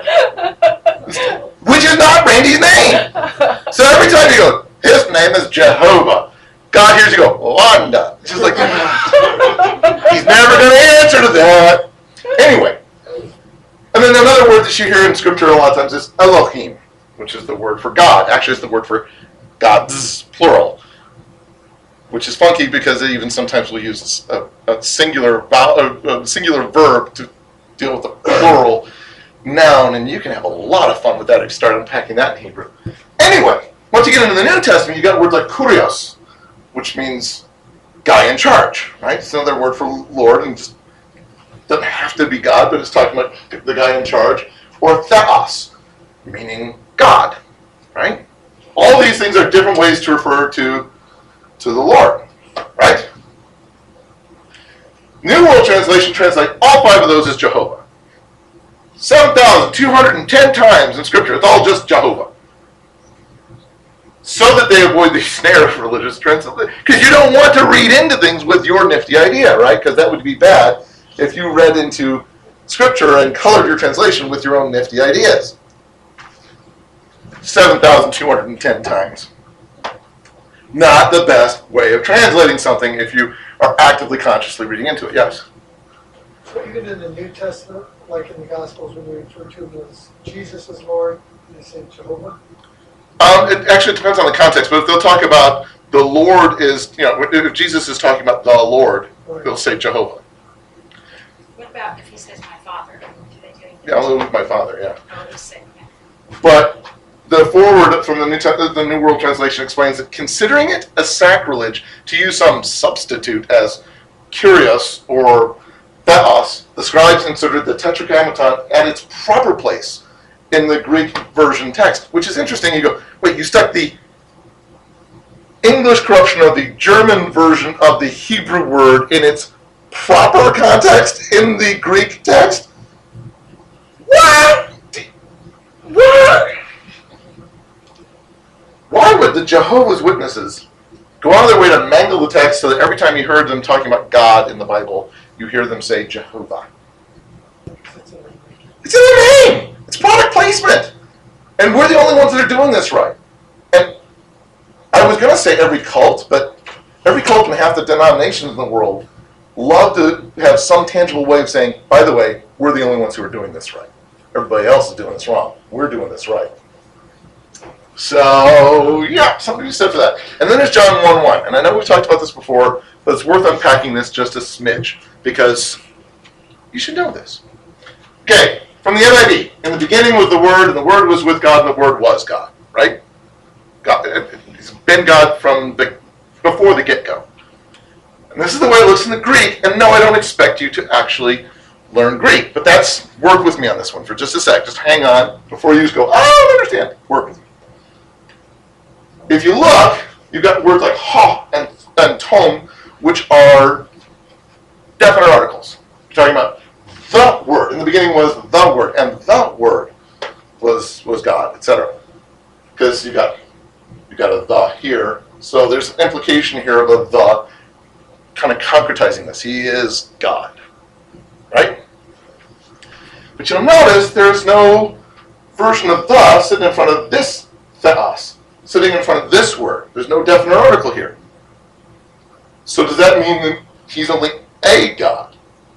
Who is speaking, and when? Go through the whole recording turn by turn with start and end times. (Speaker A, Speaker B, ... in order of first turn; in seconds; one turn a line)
Speaker A: 1.1-12.8
Speaker A: 13.9-19.1
Speaker A: 19.6-20.8
Speaker A: 22.1-28.9
Speaker A: 29.4-36.1
Speaker A: 36.7-37.4
Speaker A: 38.0-40.7
Speaker A: 41.7-45.7
Speaker A: 46.2-47.4
Speaker A: 47.9-48.2
Speaker A: 48.7-50.9
Speaker A: 51.6-52.2
Speaker A: 52.8-53.1
Speaker A: 55.2-57.8
Speaker A: 59.0-62.3
Speaker A: 64.2-75.5
Speaker A: 77.4-79.3
Speaker A: 80.7-85.4
Speaker B: 86.5-92.4
Speaker A: 93.2-100.2
Speaker B: 99.2-99.5
Speaker C: 101.5-104.2
Speaker A: 103.8-105.0
Speaker C: 105.1-105.9
Speaker A: 106.4-113.8
Speaker A: 114.3-124.0
Speaker A: 125.6-132.7
Speaker A: 134.1-135.1
Speaker A: 135.8-136.6
Speaker A: 138.9-140.6
Speaker A: 141.2-146.7
Speaker B: 147.7-148.8
Speaker A: 148.8-150.9
Speaker A: 151.6-153.1
Speaker A: 153.7-154.0
Speaker A: 154.9-166.5
Speaker A: 167.9-175.8
Speaker A: 176.7-177.4
Speaker A: 178.2-183.0
Speaker A: 183.8-187.2
Speaker A: 188.3-197.4
Speaker A: 199.3-203.9
Speaker A: 205.0-209.9
Speaker A: 210.6-211.9
Speaker A: 212.8-213.4
Speaker A: 214.1-217.4
Speaker A: 218.3-220.6
Speaker A: 221.5-221.8
Speaker A: 223.4-225.0
Speaker A: 225.6-231.2
Speaker A: 232.7-235.3